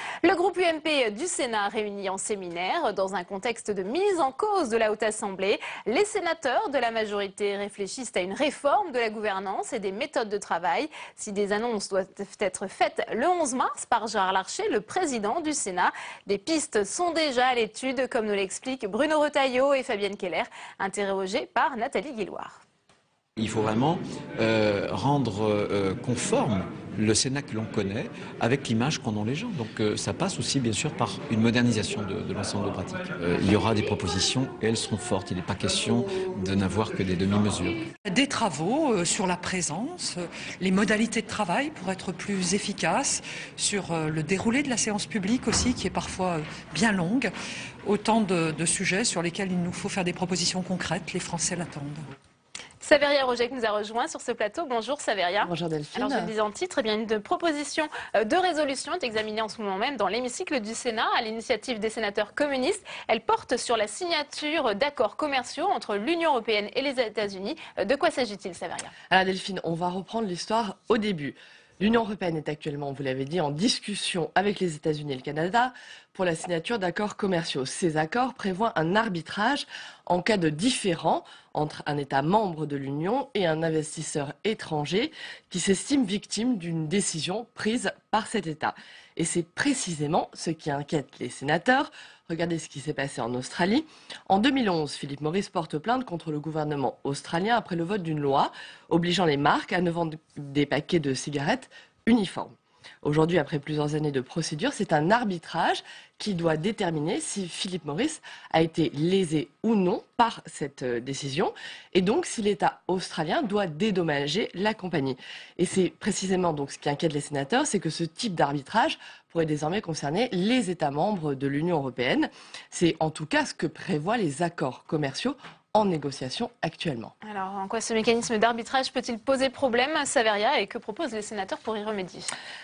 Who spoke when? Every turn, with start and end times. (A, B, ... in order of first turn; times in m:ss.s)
0:00.2-0:22.6 A
0:23.4-0:37.9 B
0:38.0-0:52.0 C
0:52.8-1:08.9 A
0:55.4-0:56.3 D
1:09.1-2:07.1 D
2:07.2-2:12.3 A